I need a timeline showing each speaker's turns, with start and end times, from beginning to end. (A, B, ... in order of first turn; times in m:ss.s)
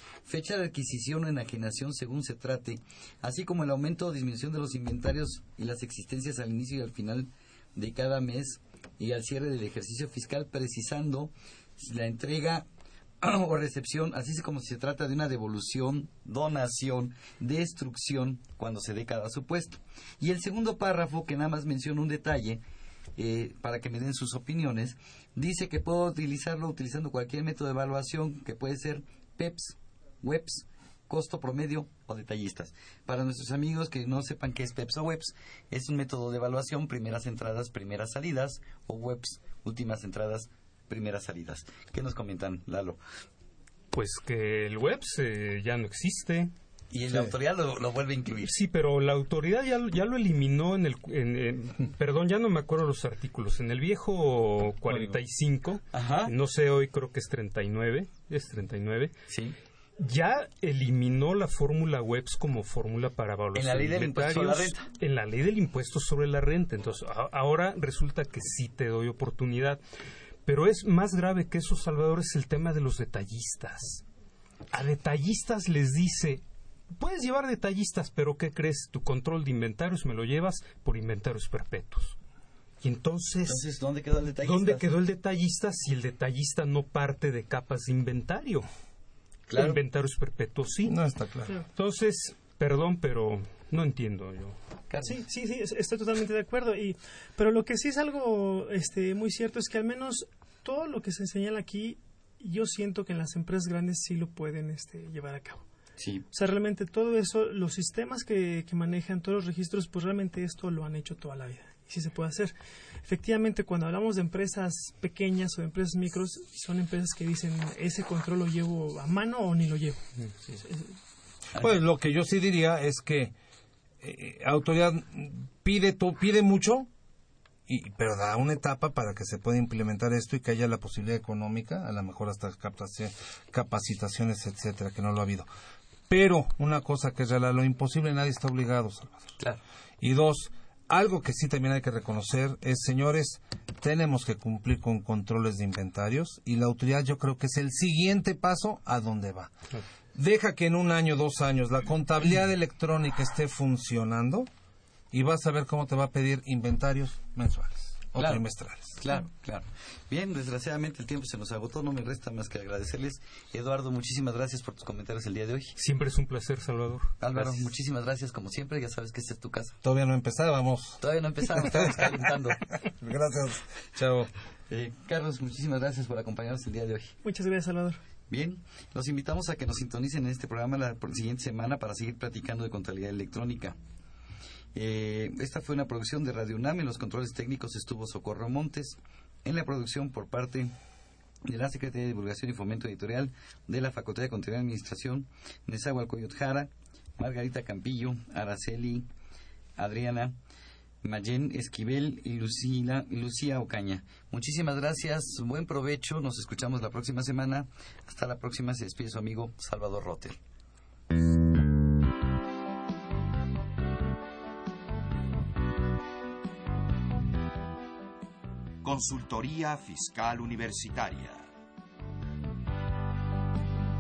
0:00.2-0:12.7 A
0:13.2-0:22.6 A
0:23.2-0:43.0 A
0:43.9-0:46.5 B
0:46.9-0:48.6 A
0:47.1-0:47.3 C
0:48.4-0:59.1 B
0:54.9-0:55.2 C
0:55.9-0:56.3 A
0:59.3-0:59.6 A
1:00.0-1:09.8 B
1:03.5-1:04.9 A
1:10.5-1:14.0 B
1:14.7-1:16.4 B
1:17.0-1:22.2 B
1:22.8-1:23.6 B
1:23.5-1:24.9 A
1:24.4-1:28.7 B
1:29.5-1:29.8 A
1:29.6-1:31.0 B
1:30.8-1:31.6 C
1:31.7-1:34.6 B
1:34.9-1:35.2 A
1:35.0-1:45.7 D
1:46.0-1:46.3 A
1:46.3-1:52.5 D
1:53.0-2:00.0 D
2:00.2-2:00.6 B
2:00.6-2:00.9 D
2:01.6-2:03.3 C
2:04.0-2:06.9 C
2:07.7-2:15.5 C
2:16.1-2:19.4 C
2:20.0-2:29.5 C
2:30.1-2:34.5 C
2:35.1-2:39.0 C
2:38.2-2:38.5 A
2:39.0-2:45.8 A
2:45.8-2:47.6 B
2:47.2-2:49.8 A
2:49.8-2:54.3 C
2:51.0-2:52.7 A
2:54.7-2:57.1 A
2:57.2-2:58.0 D
2:58.3-3:03.8 A
3:04.8-3:10.7 A
3:11.4-3:19.1 A
3:19.8-3:20.4 A
3:21.0-3:30.4 A
3:38.8-3:41.5 E